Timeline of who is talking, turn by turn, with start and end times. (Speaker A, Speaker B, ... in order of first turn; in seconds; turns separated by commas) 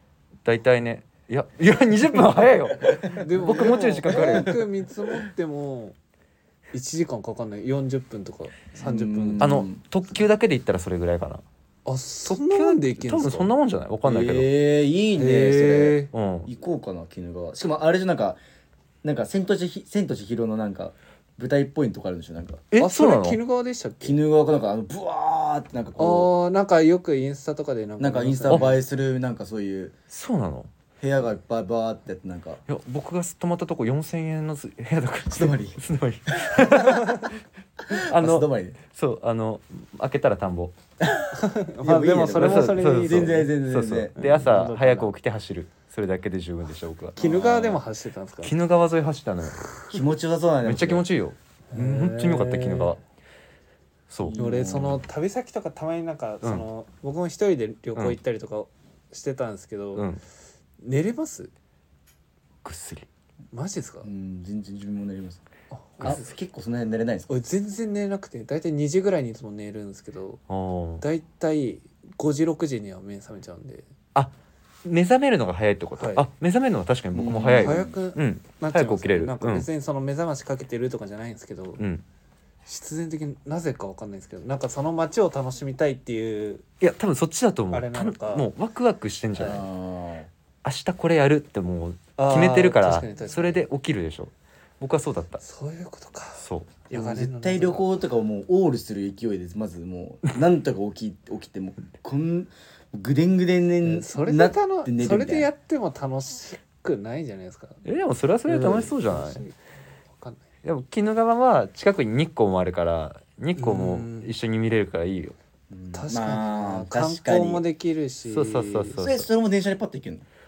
Speaker A: 0.5-4.6, Speaker B: 2.3-4.6, Speaker C: 3.1-6.0, Speaker C: 6.7-9.5, Speaker B: 8.8-9.8, Speaker A: 9.4-11.4, Speaker C: 11.9-13.5, Speaker A: 12.3-14.5, Speaker B: 14.0-18.4, Speaker C: 15.2-16.1, Speaker A: 16.1-16.5, Speaker B: 19.0-22.7, Speaker A: 22.7-23.4, Speaker C: 22.8-24.2, Speaker B: 24.0-26.3, Speaker C: 26.0-28.8, Speaker B: 28.0-30.0, Speaker A: 28.5-28.8, Speaker A: 30.1-30.7, Speaker B: 31.0-32.6, Speaker A: 32.7-37.4, Speaker B: 35.3-35.8, Speaker B: 36.5-36.9, Speaker B: 37.9-38.8, Speaker A: 37.9-40.7, Speaker B: 41.0-44.2, Speaker C: 41.3-43.5, Speaker A: 42.3-47.8, Speaker C: 44.2-45.1, Speaker C: 47.2-48.5, Speaker B: 47.2-47.5, Speaker A: 48.4-49.7, Speaker B: 49.9-51.1, Speaker A: 50.6-53.0, Speaker C: 51.7-53.0, Speaker A: 54.1-54.4, Speaker B: 54.2-55.0, Speaker C: 54.4-60.1, Speaker A: 60.0-60.2, Speaker C: 60.8-61.5, Speaker A: 62.6-63.1, Speaker C: 63.5-64.1, Speaker B: 64.0-65.4, Speaker C: 65.7-66.3, Speaker B: 66.0-67.4, Speaker C: 67.3-70.4, Speaker A: 70.5-71.0, Speaker C: 71.0-73.9, Speaker A: 74.8-79.7, Speaker C: 76.0-76.3, Speaker B: 77.1-78.0, Speaker C: 77.6-81.8, Speaker C: 82.7-86.7, Speaker A: 86.8-89.7, Speaker C: 87.7-88.5, Speaker C: 89.4-89.6, Speaker B: 89.4-90.3, Speaker A: 90.6-95.4, Speaker C: 92.2-93.6, Speaker C: 95.4-97.9, Speaker A: 96.4-96.8, Speaker B: 96.9-105.5, Speaker C: 103.8-107.8, Speaker A: 107.8-109.4, Speaker C: 108.5-109.6, Speaker C: 110.2-110.4, Speaker A: 110.6-115.4, Speaker C: 113.6-114.3, Speaker B: 115.7-117.6, Speaker C: 115.9-119.0, Speaker A: 118.2-119.3, Speaker B: 119.0-120.3